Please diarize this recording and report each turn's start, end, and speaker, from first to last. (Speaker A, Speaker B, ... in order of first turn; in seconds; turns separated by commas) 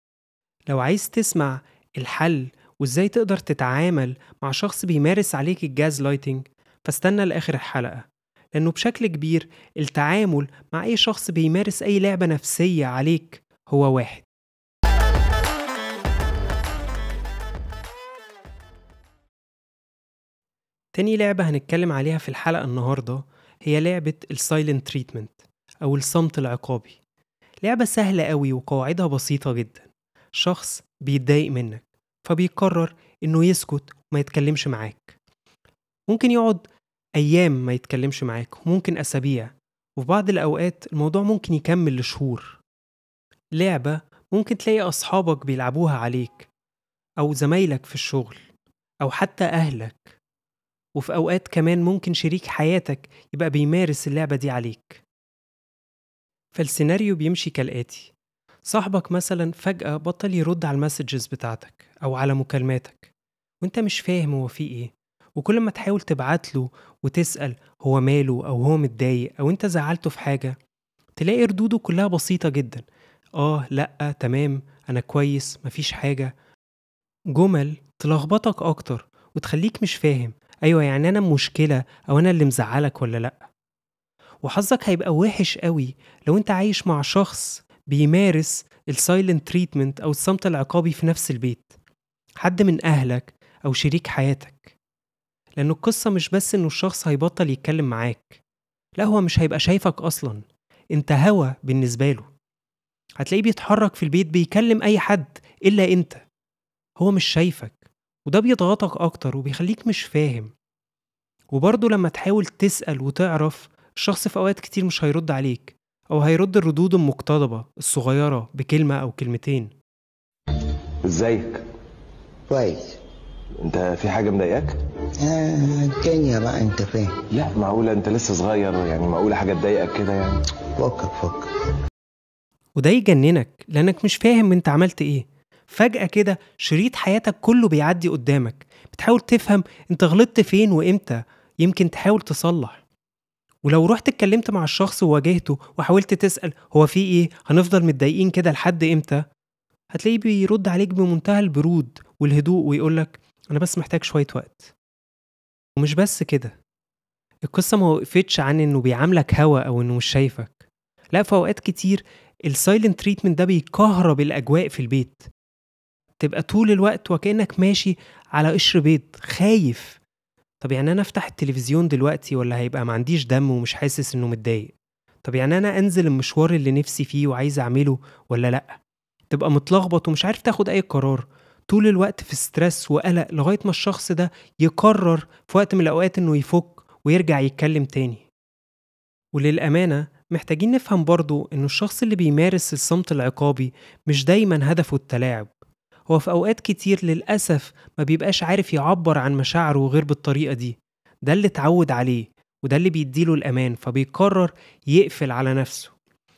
Speaker A: 0.7-8.1, Speaker A: 8.6-14.3, Speaker A: 20.9-27.0, Speaker A: 27.6-35.2, Speaker A: 36.1-36.6, Speaker A: 37.2-42.6, Speaker A: 43.6-46.5, Speaker A: 47.2-48.4, Speaker A: 49.0-50.1, Speaker A: 51.0-55.0, Speaker A: 56.5-58.1, Speaker A: 58.6-63.1, Speaker A: 63.6-70.6, Speaker A: 71.2-72.8, Speaker A: 73.4-76.3, Speaker A: 77.3-83.5, Speaker A: 84.4-91.8, Speaker A: 92.4-94.7, Speaker A: 95.6-98.4, Speaker A: 99.0-100.4, Speaker A: 101.0-102.3, Speaker A: 103.2-106.2, Speaker A: 107.0-110.5, Speaker A: 111.5-119.7, Speaker B: 121.0-121.6, Speaker C: 122.5-123.0, Speaker B: 123.6-124.8, Speaker C: 125.2-127.1, Speaker B: 127.3-130.4, Speaker C: 130.8-131.5, Speaker A: 132.8-142.8, Speaker A: 143.7-149.2, Speaker A: 149.9-154.7, Speaker A: 155.8-156.6, Speaker A: 157.5-165.3, Speaker A: 166.2-170.0, Speaker A: 170.6-174.7, Speaker A: 175.2-178.8, Speaker A: 179.3-188.3, Speaker A: 189.3-195.5, Speaker A: 196.1-205.9